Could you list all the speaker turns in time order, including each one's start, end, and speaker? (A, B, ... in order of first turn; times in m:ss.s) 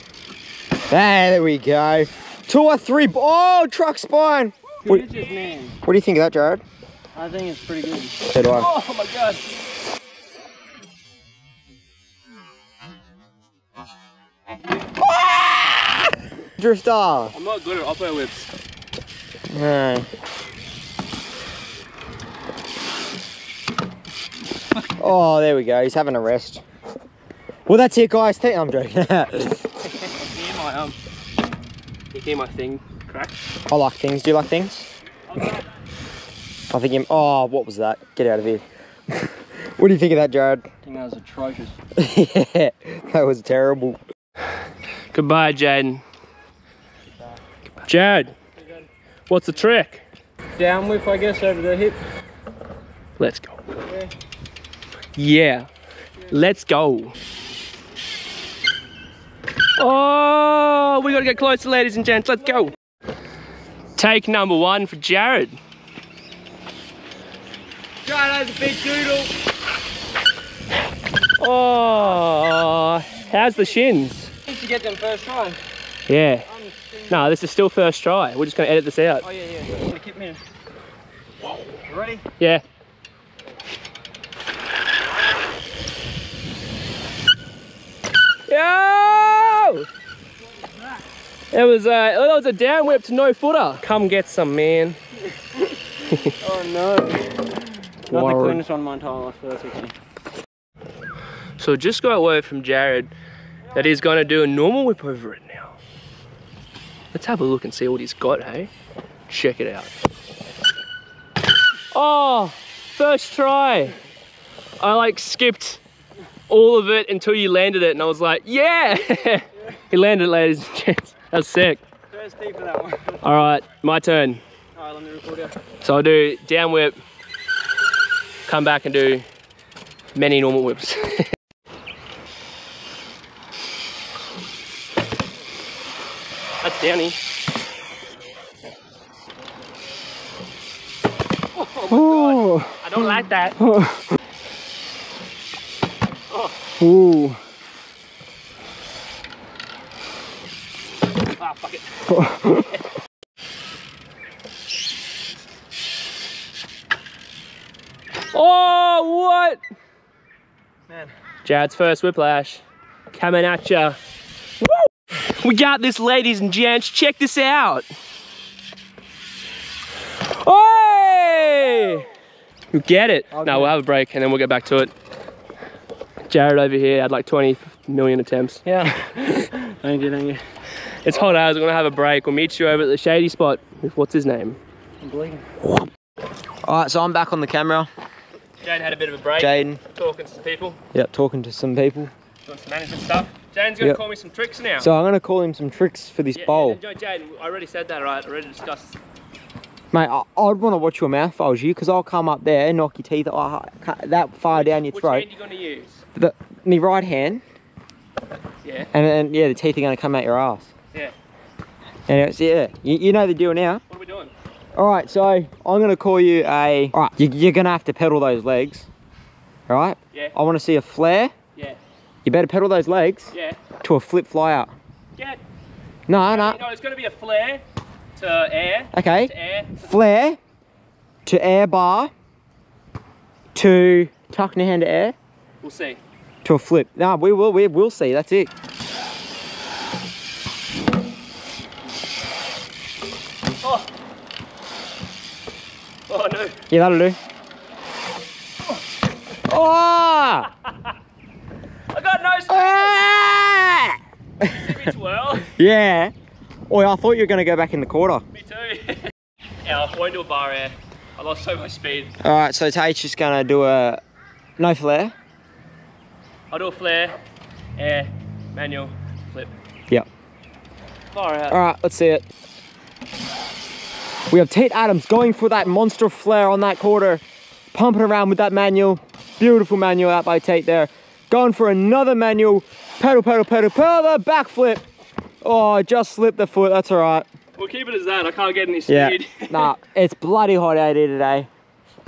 0:00.9-0:05.1 A
0:04.8-0:05.8 B
0:05.8-0:06.6 A
0:07.1-0:08.2 B
0:08.3-0:08.7 A
0:08.4-0:09.5 C
0:15.0-0:17.3 A
0:17.3-0:18.5 C
0:19.5-0:20.1 A
0:25.0-0:26.6 A
0:27.6-0:29.7 A
0:30.0-0:31.0 C
0:32.1-0:33.4 C
0:33.7-0:34.9 A
0:36.7-0:40.6 A
0:40.8-0:41.8 B
0:42.0-0:44.0 A
0:45.1-0:46.0 C
0:47.8-0:48.3 C
0:49.3-0:50.0 C
0:50.6-0:52.0 B
0:53.2-0:53.6 C
0:55.2-0:55.7 C
0:56.3-0:57.1 C
0:59.8-1:02.7 C
1:04.0-1:05.6 C
1:08.0-1:09.3 A
1:11.4-1:14.3 C
1:14.4-1:15.6 B
1:16.1-1:16.5 C
1:16.5-1:17.3 B
1:17.1-1:19.2 C
1:19.2-1:20.4 B
1:21.9-1:22.2 A
1:28.5-1:29.8 C
1:31.5-1:35.0 C
1:36.4-1:37.3 B
1:38.1-1:39.9 B
1:38.1-1:38.6 C
1:41.6-1:43.1 C
1:43.7-1:45.7 C
1:47.1-1:48.7 C
1:49.3-1:49.9 C
1:51.9-1:53.9 C
1:54.8-1:55.8 C
1:56.5-2:01.8 C
2:02.1-2:03.4 B
2:03.2-2:04.4 C
2:04.8-2:05.6 B
2:05.8-2:07.0 C
2:08.4-2:09.2 C
2:10.1-2:11.3 C
2:16.6-2:17.2 C
2:21.6-2:23.6 C
2:21.9-2:24.0 B
2:26.8-2:27.4 B
2:31.4-2:31.9 C
2:32.1-2:32.6 B
2:38.3-2:39.6 C
2:41.4-2:44.0 C
2:44.6-2:47.9 C
2:50.2-2:52.1 C
2:52.7-2:54.9 C
2:53.3-2:53.7 B
2:56.3-2:58.6 C
2:58.6-3:00.4 B
3:01.0-3:04.6 C
3:05.0-3:05.4 B
3:06.6-3:07.9 A
3:08.6-3:10.8 C
3:09.4-3:09.8 A
3:10.9-3:12.1 A
3:12.4-3:14.9 C
3:14.8-3:16.8 A
3:16.3-3:19.0 C
3:19.9-3:25.2 A
3:24.5-3:26.0 C
3:26.1-3:27.4 A
3:28.6-3:28.9 C
3:28.9-3:30.7 A
3:32.1-3:33.8 A
3:33.9-3:34.3 C
3:34.7-3:38.9 A
3:39.7-3:41.3 A
3:42.2-3:43.3 A
3:43.3-3:43.6 C
3:43.8-3:44.7 A
3:46.1-3:46.6 A
3:46.3-3:47.6 C
3:48.2-3:49.9 C
3:48.9-3:50.4 A
3:51.2-3:52.1 A
3:53.5-3:55.1 A
3:55.6-3:56.0 C
3:56.4-3:58.5 A
4:03.6-4:03.9 C
4:06.1-4:06.6 C
4:06.7-4:07.2 A
4:09.5-4:10.5 A
4:11.9-4:13.1 C
4:12.5-4:14.9 A
4:14.5-4:15.5 C
4:15.5-4:16.1 A
4:16.7-4:18.2 A
4:18.3-4:19.1 C
4:19.6-4:22.1 C
4:22.2-4:24.0 A
4:24.6-4:25.1 A
4:26.5-4:27.2 C
4:27.8-4:29.5 C
4:31.1-4:31.6 C
4:31.5-4:32.2 A
4:34.3-4:37.2 A
4:37.7-4:44.8 A
4:45.4-4:47.2 A
4:47.6-4:49.7 C
4:48.9-4:51.5 A